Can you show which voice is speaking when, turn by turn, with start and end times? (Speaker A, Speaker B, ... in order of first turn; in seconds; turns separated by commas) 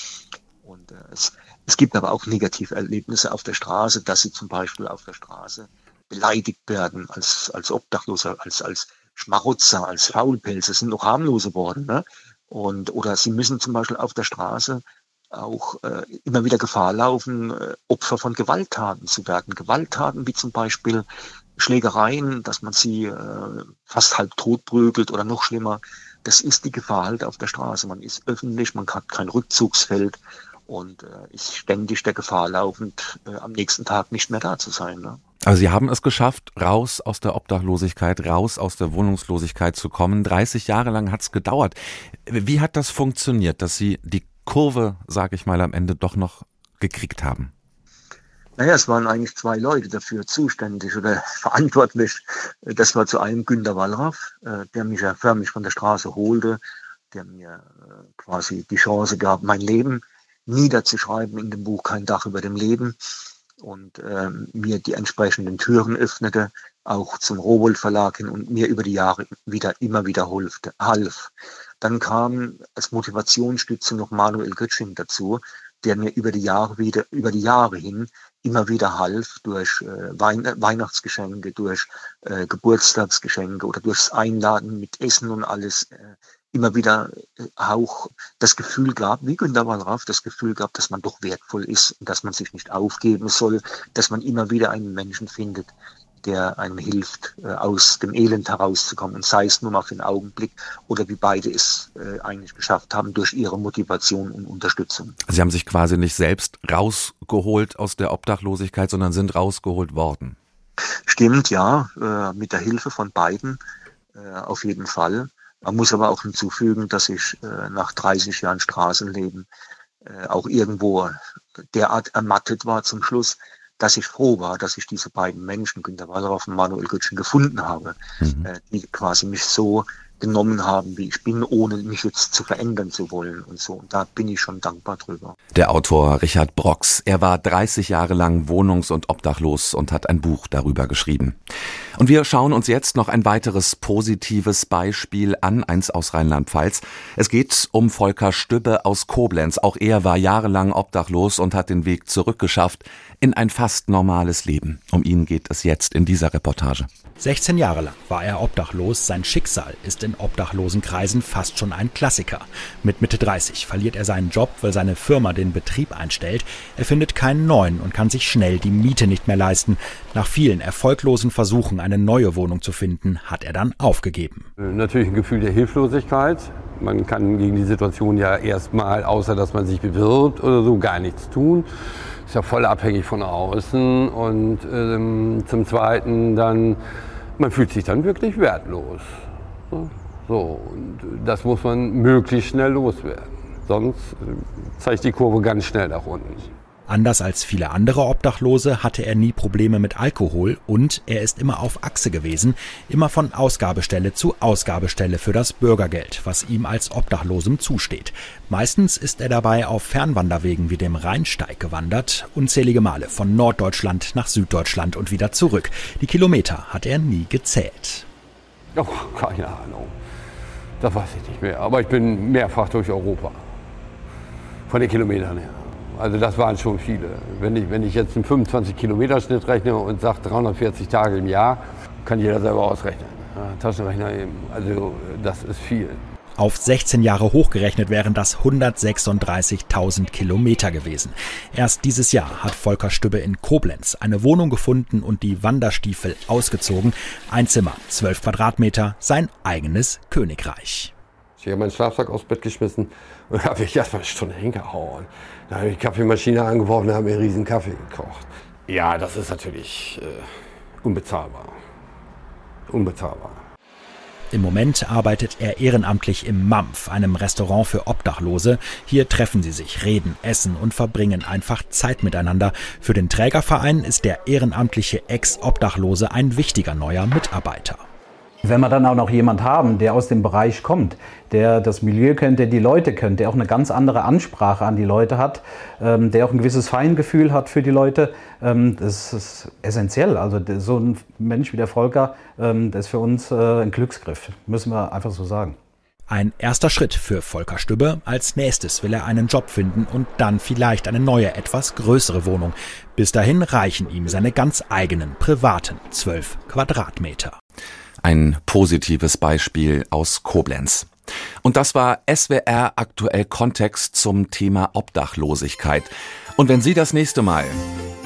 Speaker A: 0.6-21.1, Speaker A: 21.6-35.2, Speaker B: 35.4-47.5, Speaker A: 48.6-56.6, Speaker A: 57.1-63.0, Speaker A: 63.6-105.2, Speaker B: 105.3-110.4, Speaker A: 111.1-113.6, Speaker A: 114.1-119.5, Speaker A: 120.0-121.2, Speaker A: 121.7-135.4, Speaker B: 128.2-128.5, Speaker B: 135.5-141.4, Speaker B: 142.0-156.9, Speaker C: 157.2-174.5, Speaker D: 174.6-181.7, Speaker D: 182.3-186.8, Speaker D: 187.4-189.1, Speaker D: 189.7-196.5, Speaker C: 196.9-218.1, Speaker D: 218.8-219.9, Speaker D: 220.8-223.4, Speaker D: 224.7-236.0, Speaker C: 236.4-250.9, Speaker D: 251.4-261.6, Speaker D: 262.7-263.4, Speaker C: 264.3-277.8, Speaker E: 278.4-295.6, Speaker C: 296.1-307.3, Speaker B: 308.0-310.9, Speaker B: 311.4-317.6